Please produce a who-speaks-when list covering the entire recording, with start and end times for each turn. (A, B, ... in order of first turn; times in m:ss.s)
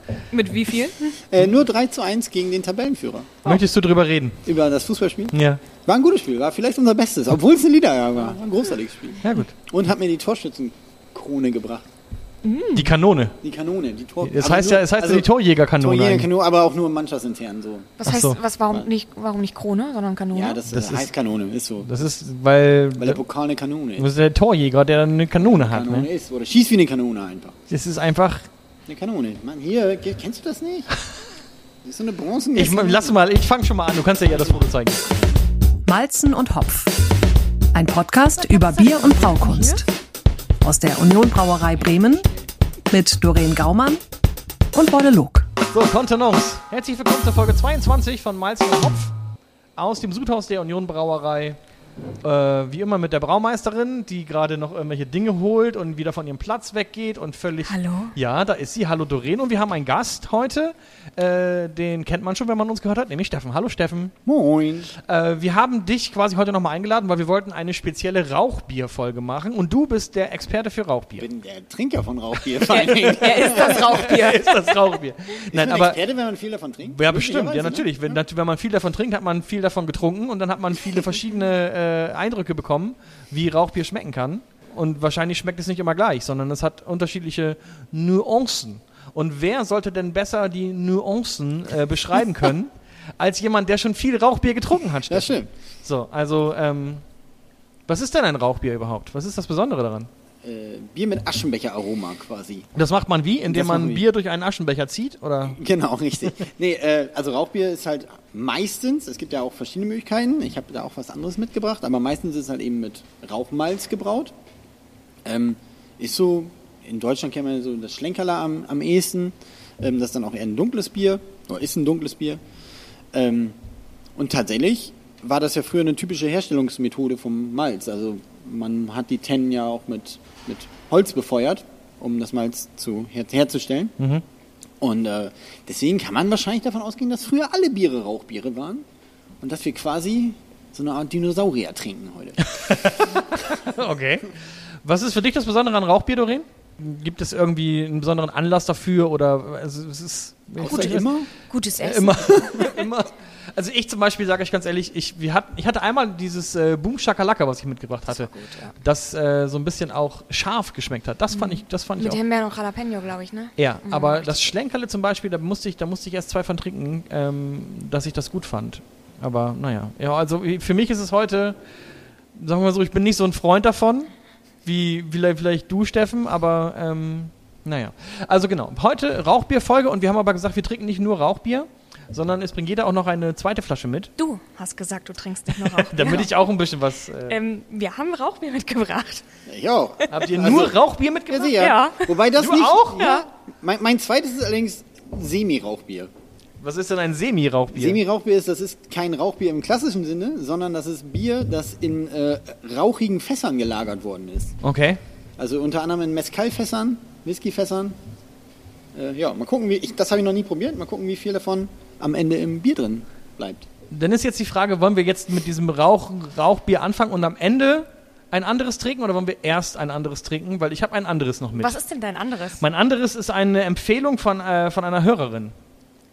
0:00.3-0:01.2 A
0:01.2-0:03.4 B
0:03.4-0:04.4 C
0:04.4-0:11.9 B
0:05.3-0:05.6 C
0:09.2-0:09.5 C
0:12.4-0:12.9 A
0:12.8-0:13.4 C
0:13.4-0:18.0 B
0:14.2-0:16.3 C
0:18.0-0:20.6 A
0:18.0-0:18.4 C
0:20.3-0:21.9 B
0:20.7-0:21.1 C
0:21.8-0:23.2 C
0:23.0-0:24.1 B
0:24.0-0:26.1 C
0:25.4-0:27.6 B
0:27.7-0:28.5 C
0:28.9-0:30.9 B
0:31.8-0:33.2 B
0:32.5-0:35.1 C
0:35.8-0:37.0 D
0:37.7-0:39.8 D
0:38.4-0:39.8 A
0:40.6-0:42.3 D
0:42.9-0:44.0 D
0:44.7-0:45.5 D
0:45.7-0:49.1 C
0:49.8-0:51.6 C
0:52.2-1:04.2 C
0:57.7-0:58.2 A
1:04.2-1:04.9 B
1:05.0-1:11.3 C
1:11.2-1:13.9 B
1:12.6-1:14.8 A
1:13.4-1:16.0 C
1:15.5-1:17.9 B
1:16.9-1:37.0 C
1:35.1-1:35.5 B
1:37.9-1:40.1 C
1:40.4-1:42.7 B
1:42.8-1:45.6 C
1:43.5-1:44.0 B
1:45.4-1:54.3 B
1:55.2-2:02.4 B
2:03.1-2:03.6 B
2:04.2-2:13.9 B
2:14.0-2:14.2 C
2:14.8-2:18.8 B
2:19.4-2:23.1 B
2:22.4-2:31.1 C
2:30.6-2:31.3 B
2:30.7-2:32.7 A
2:31.8-2:42.2 C
2:38.2-2:38.7 A
2:41.3-2:44.4 A
2:43.6-2:51.6 C
2:52.3-2:54.1 C
2:54.6-3:04.1 C
3:04.2-3:06.3 A
3:05.6-3:07.4 C
3:07.3-3:09.2 A
3:09.5-3:16.1 B
3:10.1-3:11.8 C
3:11.5-3:12.1 A
3:12.3-3:13.1 C
3:13.0-3:13.3 A
3:16.6-3:18.0 C
3:17.7-3:24.6 B
3:24.6-3:25.0 C
3:25.4-3:28.0 B
3:29.0-3:33.7 B
3:33.9-3:41.8 C
3:41.6-3:42.6 A
3:42.6-3:45.5 C